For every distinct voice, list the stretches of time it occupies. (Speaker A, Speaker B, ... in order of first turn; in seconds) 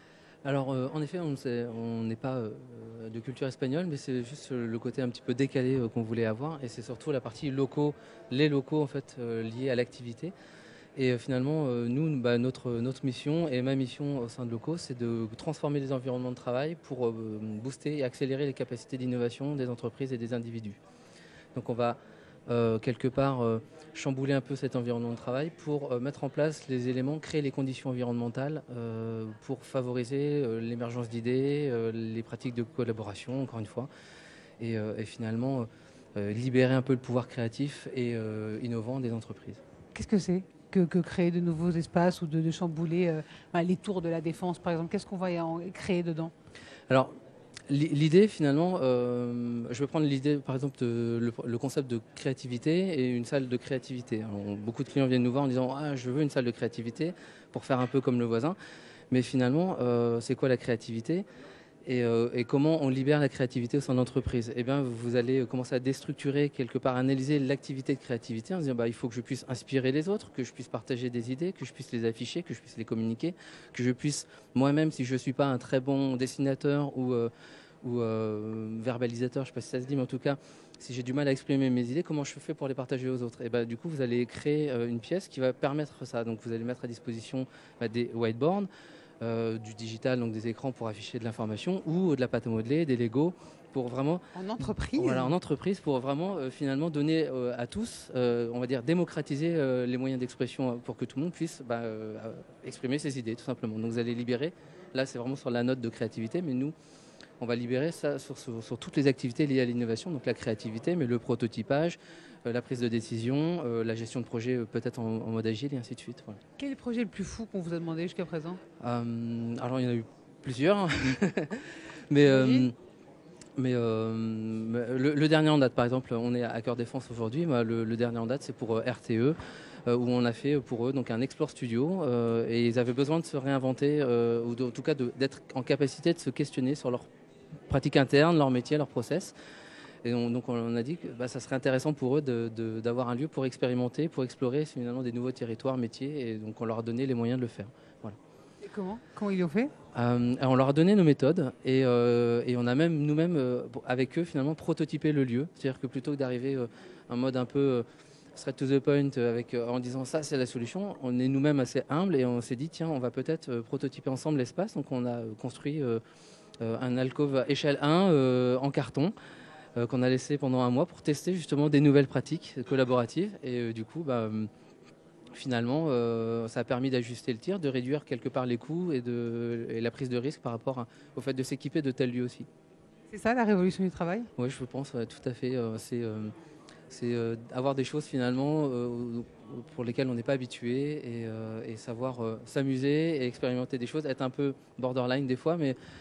Speaker A: 0.4-10.3, 10.9-20.8, 21.5-33.9, 34.6-39.6, 47.7-58.5, 59.1-61.2, 61.8-77.3, 77.8-88.7, 89.2-94.3, 95.0-106.7, 107.4-116.4, 118.8-122.7, 123.6-137.1, 137.7-139.3, 140.0-148.2, 149.9-166.0, 166.6-169.1, 169.8-174.5, 175.3-182.5, 184.4-186.3, 186.9-195.8
Speaker B: 39.9-46.3, 94.3-95.3, 116.6-118.6, 122.2-122.7, 148.6-149.7, 183.1-184.3